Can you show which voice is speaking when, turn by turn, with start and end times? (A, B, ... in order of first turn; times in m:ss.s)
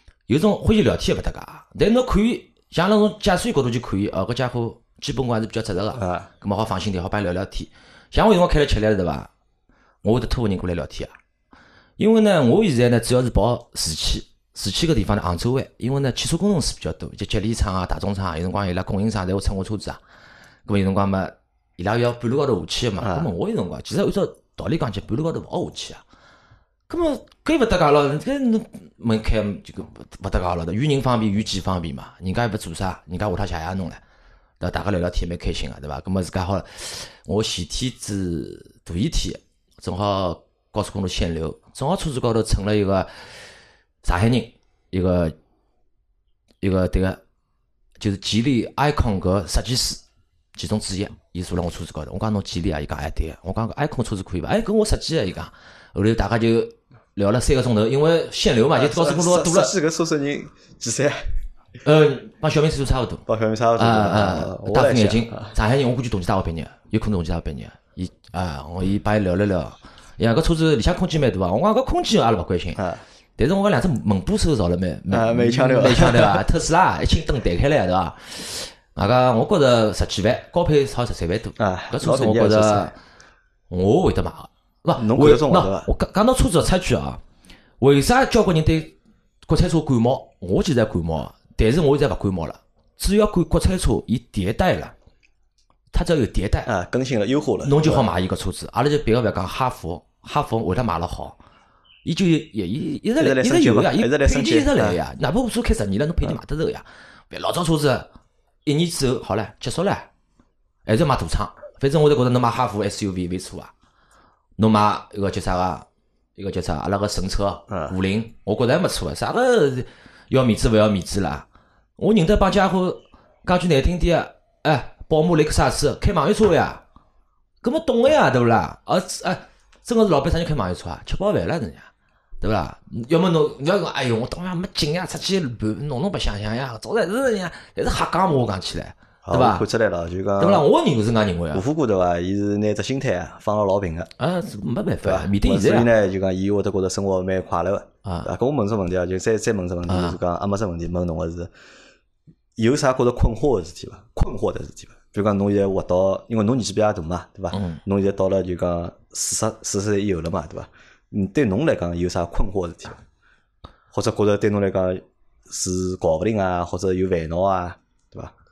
0:00.3-0:09.3 A
0:06.0-0:06.3 B
0:10.0-0:11.1 A
0:12.0-0:20.0 A
0:20.6-0:26.0 A
0:23.0-0:23.3 B
0:26.9-0:34.0 A
0:34.6-0:43.1 A
0:44.0-0:45.3 A
0:46.6-0:47.2 A
0:48.0-0:50.0 A
0:50.6-0:59.7 A
0:58.7-1:01.3 B
1:01.8-1:03.2 A
1:03.3-1:05.5 B
1:03.8-1:12.8 A
1:12.8-1:13.0 B
1:13.4-1:23.0 A
1:15.1-1:16.4 B
1:21.6-1:22.9 B
1:23.7-1:27.2 A
1:25.0-1:25.9 B
1:27.8-1:34.9 A
1:35.9-1:36.7 A
1:36.6-1:38.1 B
1:37.6-1:41.4 A
1:42.0-1:48.1 A
1:43.2-1:45.0 B
1:48.6-1:50.1 A
1:50.8-1:53.7 A
1:54.6-1:55.8 A
1:56.4-2:01.4 A
1:57.7-1:57.9 B
2:02.0-2:06.8 A
2:07.6-2:11.9 A
2:12.4-2:19.6 A
2:19.2-2:20.7 B
2:20.4-2:21.6 A
2:21.5-2:24.1 B
2:24.2-2:25.9 A
2:25.0-2:31.5 B
2:28.0-2:28.3 A
2:29.9-2:30.2 A
2:32.6-2:43.0 B
2:37.5-2:37.8 A
2:43.9-2:48.3 B